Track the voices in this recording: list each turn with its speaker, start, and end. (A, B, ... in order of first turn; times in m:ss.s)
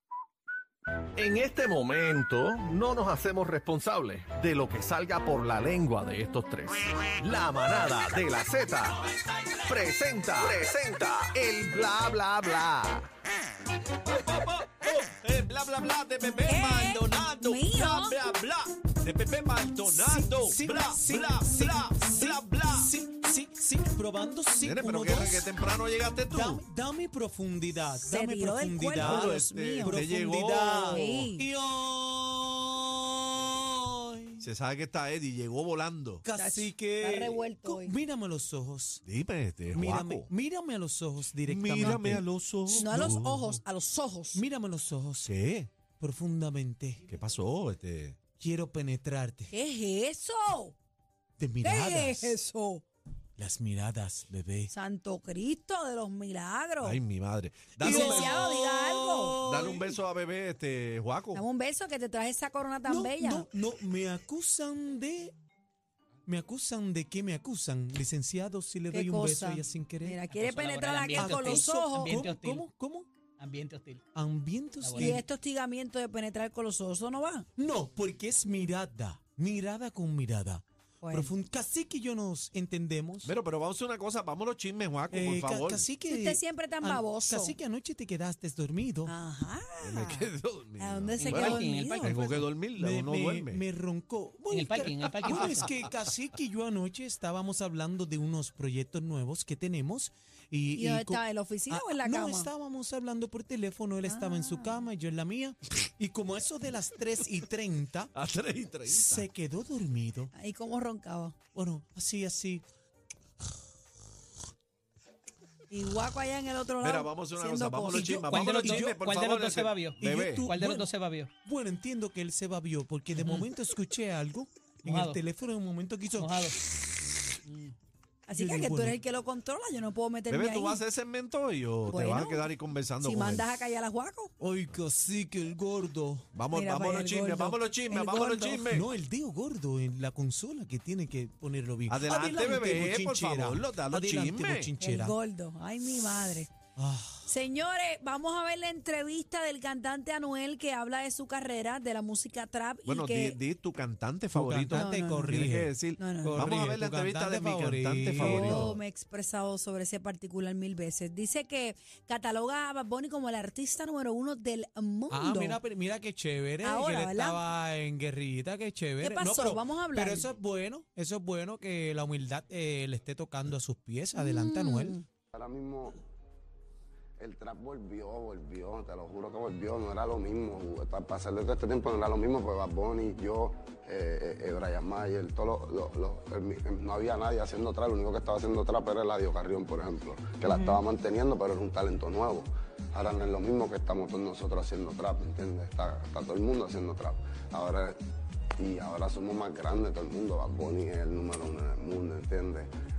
0:01.2-0:13.1 A
0:14.1-0:22.9 B
0:16.4-0:18.2 C
0:20.3-0:25.5 D
0:24.6-0:26.6 B
0:26.3-0:34.5 D
0:28.0-0:30.0 C
0:29.0-0:31.3 B
0:30.8-0:31.5 C
0:34.4-0:36.2 B
0:36.2-0:39.0 D
0:36.3-0:38.0 C
0:39.0-0:40.3 B
0:39.7-0:43.2 D
0:41.4-0:43.4 B
0:42.7-0:44.4 C
0:44.3-0:45.3 D
0:45.2-0:45.7 B
0:46.0-0:47.1 D
0:47.1-0:48.2 B
0:48.4-0:49.5 D
0:49.5-0:50.7 C
0:51.4-0:52.4 D
0:51.6-0:52.8 C
0:53.4-0:54.7 D
0:54.7-0:57.0 C
0:56.8-0:58.4 B
0:57.8-1:00.0 D
0:57.8-0:59.4 C
0:59.4-1:01.4 B
1:01.3-1:03.5 C
1:02.8-1:05.3 D
1:06.3-1:10.2 D
1:08.9-1:12.2 C
1:10.3-1:12.6 E
1:11.1-1:13.1 D
1:13.4-1:14.0 E
1:14.2-1:15.2 D
1:14.8-1:15.2 E
1:15.0-1:17.5 C
1:17.6-1:23.3 D
1:21.0-1:21.3 C
1:23.2-1:25.9 B
1:25.1-1:29.2 D
1:26.1-1:27.6 C
1:29.1-1:30.3 C
1:29.8-1:33.6 B
1:30.8-1:32.4 C
1:31.2-1:32.3 E
1:32.7-1:48.1 D
1:34.5-1:35.7 E
1:40.8-1:42.5 C
1:44.0-1:44.9 C
1:48.2-1:49.3 B
1:48.9-1:50.3 D
1:50.3-1:51.4 C
1:51.5-1:52.6 D
1:55.7-1:58.2 C
1:56.8-2:00.4 B
1:57.9-1:58.9 D
1:58.3-2:01.3 E
2:00.0-2:00.9 D
2:01.4-2:06.5 D
2:03.2-2:03.5 E
2:04.8-2:05.2 E
2:06.2-2:06.6 E
2:07.4-2:07.7 E
2:08.2-2:10.8 C
2:08.4-2:09.0 D
2:10.3-2:13.6 B
2:11.9-2:12.4 C
2:13.0-2:14.3 C
2:14.4-2:16.3 D
2:16.3-2:18.9 B
2:16.5-2:18.7 C
2:18.7-2:25.2 D
2:21.9-2:24.7 B
2:24.8-2:26.5 C
2:26.8-2:27.3 D
2:27.2-2:33.4 C
2:32.8-2:38.8 B
2:34.3-2:38.8 D
2:34.7-2:35.4 C
2:36.0-2:36.5 C
2:38.1-2:45.6 C
2:45.1-2:55.0 D
2:46.6-2:47.4 C
2:49.0-2:50.4 C
2:54.2-2:55.0 C
2:55.3-2:56.0 F
2:57.2-3:18.0 F
3:10.5-3:10.8 C
3:18.6-3:22.7 F